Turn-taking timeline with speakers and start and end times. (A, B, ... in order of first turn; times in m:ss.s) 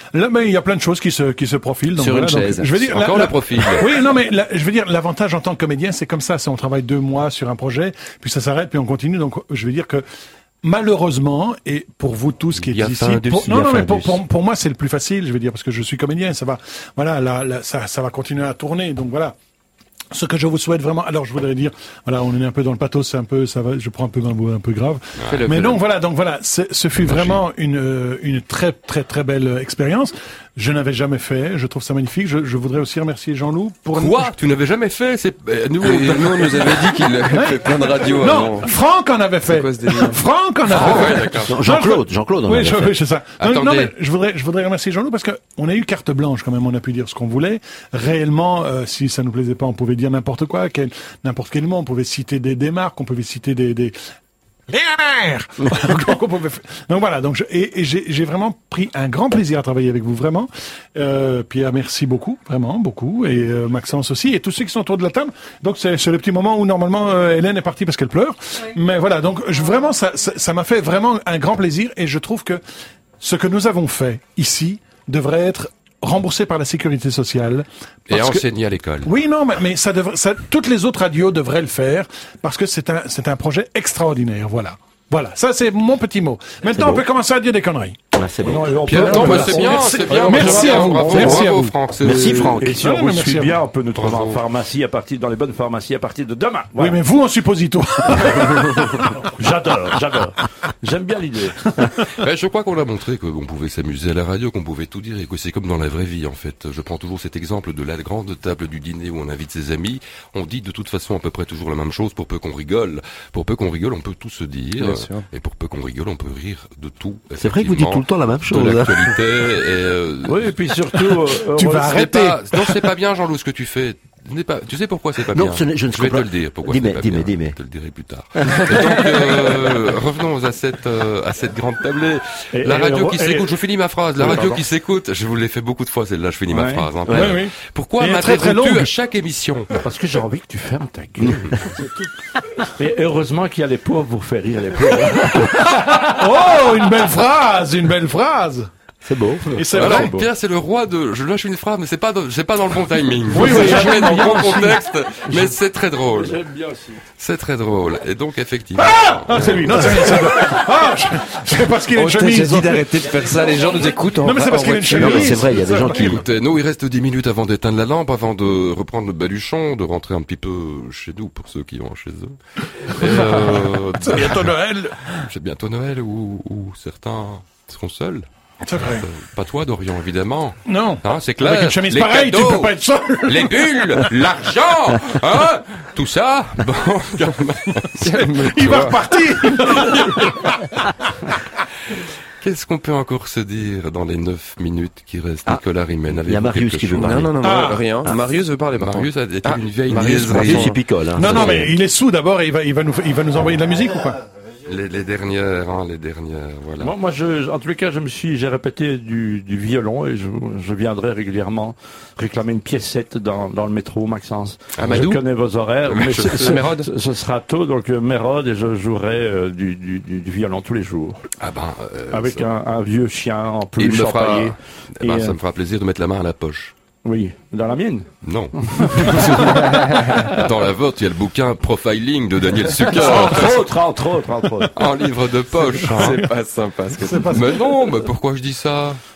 0:00.1-0:10.0 A
0:01.9-0:02.8 B
0:02.8-0:04.0 C
0:10.6-0:19.3 A
0:12.5-0:13.4 C
0:13.2-0:14.2 D
0:20.1-0:34.3 A
0:25.2-0:25.6 C
0:25.3-0:25.8 B
0:27.0-0:27.4 C
0:33.9-0:37.0 C
0:35.8-0:38.7 B
0:37.3-0:53.9 A
0:39.5-0:40.2 B
0:40.7-0:41.6 C
0:41.4-0:43.0 D
0:43.4-0:43.9 C
0:54.7-1:12.6 A
1:13.2-1:18.4 A
1:18.1-1:19.1 C
1:19.0-1:28.0 A
1:26.7-1:27.0 D
1:28.1-1:29.4 D
1:28.4-1:31.4 E
1:28.8-1:32.7 C
1:29.0-1:31.8 A
1:32.0-1:32.8 D
1:32.2-1:37.0 E
1:32.8-1:33.6 A
1:33.9-1:34.4 C
1:36.8-1:39.0 A
1:39.2-1:41.6 E
1:42.1-2:00.6 C
1:54.8-1:55.2 B
1:57.4-1:59.1 D
2:00.2-2:02.0 E
2:01.5-2:02.8 A
2:01.8-2:19.7 C
2:05.3-2:07.6 D
2:12.5-2:13.5 E
2:14.2-2:14.6 E
2:16.5-2:17.2 E
2:17.1-2:18.9 A
2:19.8-2:21.5 E
2:22.8-2:26.6 E
2:25.8-2:28.7 A
2:29.0-2:29.7 D
2:29.6-2:30.1 A
2:29.7-2:36.4 C
2:29.8-2:30.3 E
2:33.3-2:35.6 E
2:33.3-2:34.0 A
2:36.1-2:37.0 E
2:37.2-2:40.4 C
2:38.8-2:42.9 A
2:41.9-2:45.4 B
2:44.2-2:46.2 A
2:44.9-2:46.2 D
2:45.5-2:52.4 C
2:52.9-2:54.7 C
2:53.0-2:55.0 A
2:55.3-3:09.0 C
2:58.6-2:59.0 A
3:00.6-3:04.1 A
3:08.0-3:09.0 B
3:08.4-3:10.6 A
3:12.4-3:17.3 C
3:15.4-3:17.3 D
3:17.0-3:20.8 B
3:17.4-3:17.9 A
3:18.7-3:21.7 C
3:20.3-3:21.7 D
3:21.2-3:24.2 A
3:24.6-3:26.9 C
3:26.8-3:41.2 E
3:34.8-3:35.2 C
3:34.8-3:35.2 B
3:35.8-3:36.5 C
3:36.3-3:36.9 B
3:41.4-3:42.5 C
3:42.1-3:45.4 E
3:43.8-3:46.7 C
3:47.0-3:48.1 E
3:48.2-3:53.8 C
3:48.8-3:49.8 E
3:52.9-3:54.8 E
3:54.7-3:56.2 C
3:55.7-3:57.7 B
3:55.9-3:56.2 A
3:57.0-3:57.6 A
3:57.3-3:59.0 C